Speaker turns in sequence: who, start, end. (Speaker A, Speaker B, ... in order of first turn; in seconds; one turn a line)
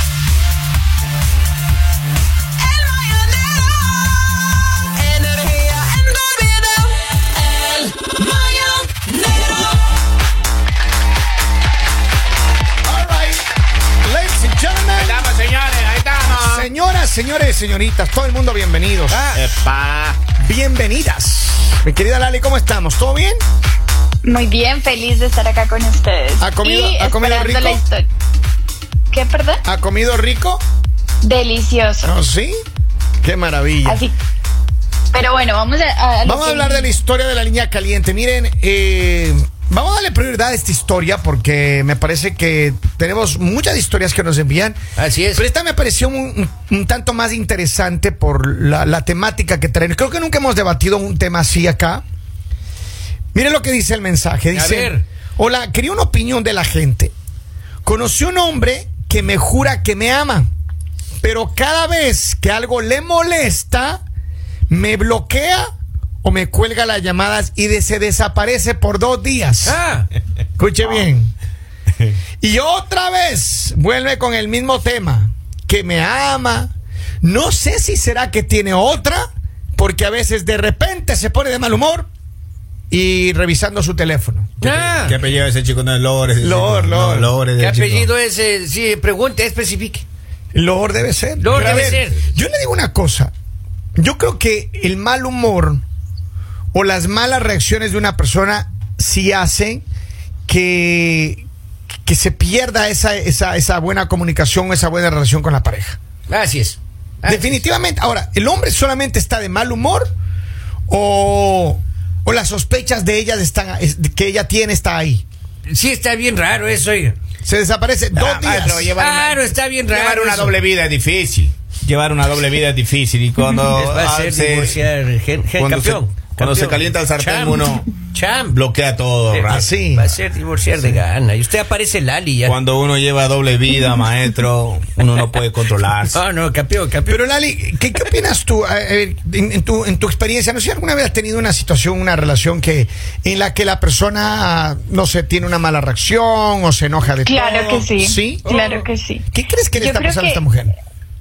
Speaker A: 5.2-6.8
Speaker A: 7.7-9.0
Speaker B: 12.8-13.4
Speaker B: 14.0-15.3
Speaker C: 15.0-16.7
Speaker B: 16.3-19.4
Speaker A: 19.1-19.4
Speaker C: 19.3-20.2
Speaker B: 20.4-23.4
Speaker D: 24.2-28.1
Speaker B: 26.4-27.8
Speaker D: 29.1-29.6
Speaker B: 29.6-30.6
Speaker D: 31.2-32.1
Speaker B: 32.0-32.5
Speaker B: 33.2-34.0
Speaker D: 33.8-34.1
Speaker D: 35.1-36.9
Speaker B: 36.2-44.8
Speaker A: 45.0-45.4
Speaker B: 45.3-52.0
Speaker B: 53.3-57.1
Speaker A: 54.5-55.0
Speaker B: 57.8-60.5
Speaker B: 61.2-64.0
Speaker B: 64.7-65.7
Speaker B: 66.2-69.8
Speaker A: 69.6-70.1
Speaker B: 70.6-71.3
Speaker B: 72.4-76.7
Speaker B: 77.2-82.1
Speaker B: 82.9-84.5
Speaker A: 84.6-85.2
Speaker C: 84.6-88.1
Speaker B: 86.4-87.3
Speaker A: 87.5-90.0
Speaker B: 90.5-93.3
Speaker A: 91.4-92.2
Speaker C: 91.5-92.0
Speaker B: 94.0-95.8
Speaker B: 96.7-99.8
Speaker B: 100.5-101.4
Speaker B: 102.0-106.0
Speaker A: 106.3-107.6
Speaker B: 107.2-110.1
Speaker B: 110.9-115.2
Speaker A: 115.7-117.2
Speaker B: 117.4-118.9
Speaker C: 118.1-124.8
Speaker A: 119.0-120.6
Speaker A: 123.7-128.6
Speaker C: 125.5-127.9
Speaker C: 128.5-129.7
Speaker A: 129.3-132.6
Speaker B: 129.5-130.1
Speaker C: 132.4-136.2
Speaker A: 136.1-137.2
Speaker B: 137.1-148.5
Speaker D: 147.2-150.4
Speaker A: 148.4-148.8
Speaker B: 149.3-150.8